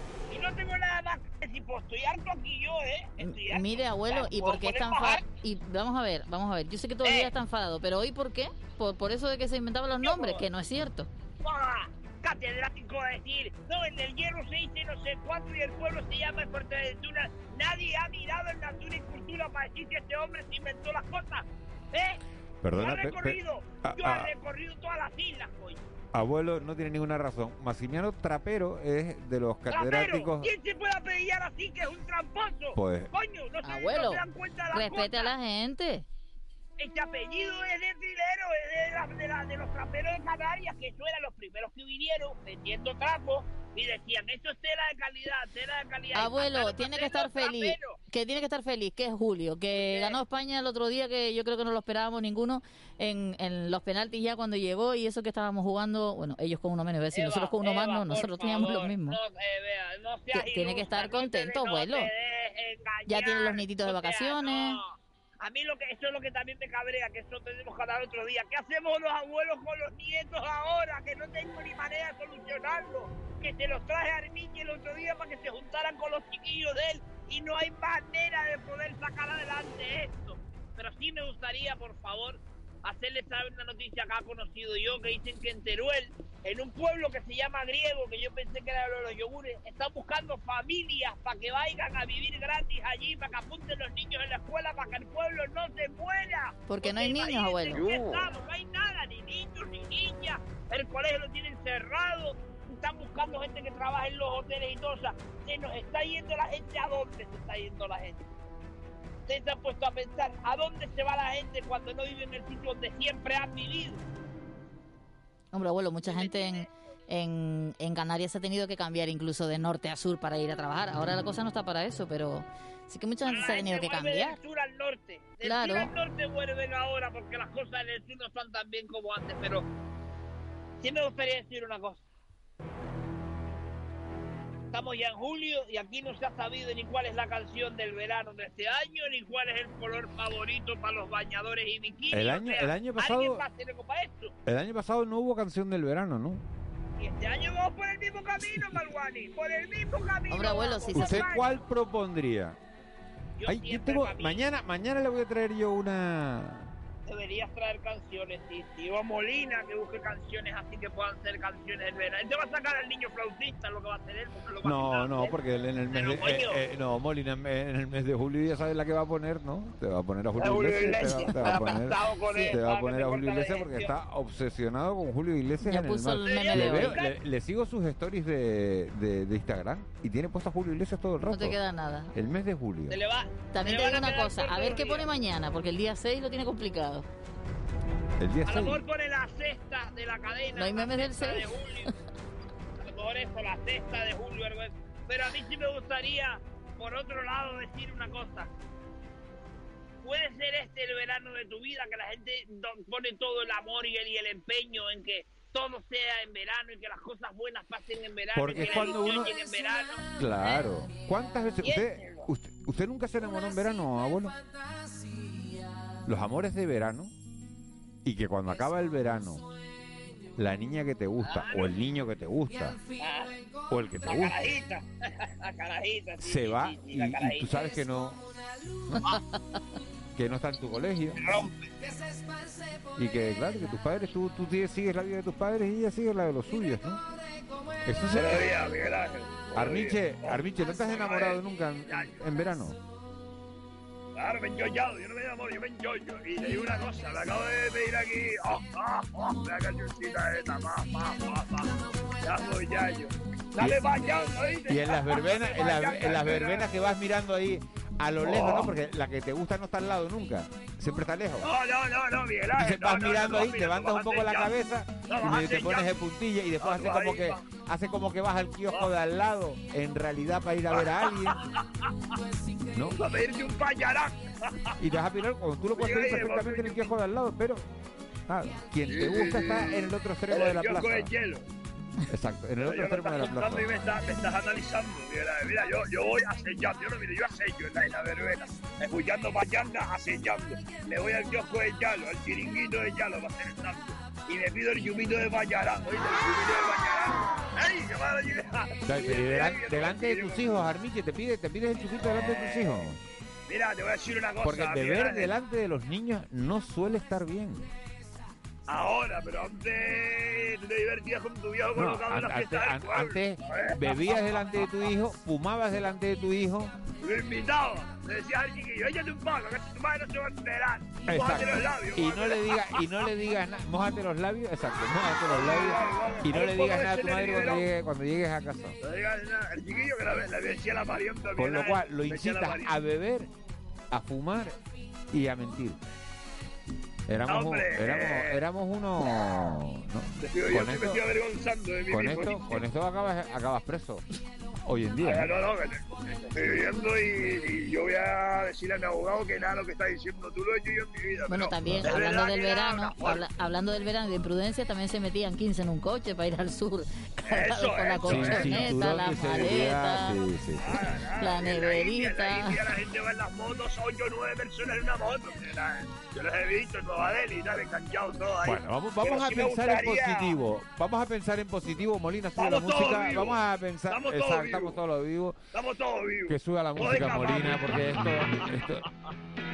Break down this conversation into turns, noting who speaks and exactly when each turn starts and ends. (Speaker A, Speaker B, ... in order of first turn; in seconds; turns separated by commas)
Speaker A: 0.3-5.2, Speaker B: 3.2-11.1, Speaker A: 7.0-7.3, Speaker A: 10.0-10.4, Speaker A: 11.4-22.2, Speaker C: 22.6-24.3, Speaker A: 22.8-25.9, Speaker C: 26.1-30.5, Speaker A: 29.7-35.3, Speaker C: 32.8-33.1, Speaker B: 33.6-36.1, Speaker A: 36.8-48.0, Speaker B: 46.1-59.2, Speaker A: 49.7-50.2, Speaker A: 57.1-108.3, Speaker B: 60.3-62.1, Speaker B: 63.1-64.8, Speaker B: 96.7-98.0, Speaker A: 109.3-114.0, Speaker B: 115.5-124.4, Speaker A: 116.0-116.7, Speaker A: 123.3-129.7, Speaker B: 125.4-125.9, Speaker A: 130.8-132.0, Speaker A: 134.7-144.3, Speaker C: 142.1-143.4, Speaker C: 144.5-146.4, Speaker A: 147.0-151.6, Speaker B: 150.3-151.3, Speaker C: 150.9-152.6, Speaker A: 153.4-154.4, Speaker C: 153.5-156.7, Speaker A: 157.1-165.4, Speaker C: 164.6-181.6, Speaker A: 165.9-166.6, Speaker D: 170.4-171.6, Speaker A: 170.6-173.9, Speaker B: 175.6-177.0, Speaker A: 176.3-177.2, Speaker B: 181.3-182.1, Speaker C: 182.1-183.0, Speaker A: 182.9-185.1, Speaker B: 183.5-187.1, Speaker C: 188.2-188.8, Speaker A: 188.5-191.9, Speaker B: 190.6-191.5, Speaker A: 192.8-198.5, Speaker A: 200.0-210.1, Speaker C: 208.3-209.3, Speaker C: 210.2-214.3, Speaker A: 211.6-212.3, Speaker C: 216.1-217.1, Speaker C: 218.0-219.5, Speaker C: 220.4-222.8, Speaker A: 221.2-221.8, Speaker A: 223.0-223.4, Speaker C: 223.7-224.4, Speaker A: 224.1-227.7, Speaker C: 226.2-228.3, Speaker C: 228.9-229.2, Speaker C: 230.2-231.2, Speaker A: 231.2-231.7, Speaker C: 233.0-237.0, Speaker C: 237.9-238.6, Speaker D: 238.1-242.2, Speaker C: 239.5-242.8, Speaker D: 244.2-256.7, Speaker C: 253.6-253.9, Speaker C: 254.7-261.5, Speaker D: 258.2-258.7, Speaker D: 261.4-264.5, Speaker C: 262.5-271.4, Speaker D: 265.1-265.9, Speaker D: 266.6-267.4, Speaker D: 270.7-271.4, Speaker C: 272.7-273.0, Speaker D: 272.9-274.7, Speaker C: 274.8-277.6, Speaker D: 275.7-276.9, Speaker C: 278.3-281.1, Speaker D: 278.9-281.5, Speaker C: 282.1-283.7, Speaker D: 282.6-300.7, Speaker C: 298.9-303.0, Speaker D: 302.0-302.9, Speaker D: 303.5-305.3, Speaker C: 304.4-307.7, Speaker D: 308.7-314.6, Speaker C: 311.7-316.7, Speaker D: 317.0-323.0, Speaker C: 321.1-328.8, Speaker D: 325.3-327.7, Speaker D: 328.8-332.8, Speaker C: 331.4-333.3, Speaker C: 333.9-334.6, Speaker C: 335.1-335.8, Speaker C: 337.1-341.0, Speaker D: 337.3-338.4, Speaker D: 340.2-342.6, Speaker C: 341.9-344.0, Speaker C: 344.6-345.3, Speaker D: 345.0-353.2, Speaker B: 351.3-360.2, Speaker C: 351.6-352.0, Speaker D: 357.3-358.8, Speaker C: 358.0-360.9, Speaker D: 360.6-370.4, Speaker B: 361.1-362.7, Speaker C: 368.4-375.4, Speaker D: 372.4-374.8, Speaker D: 375.5-378.6, Speaker C: 376.3-378.9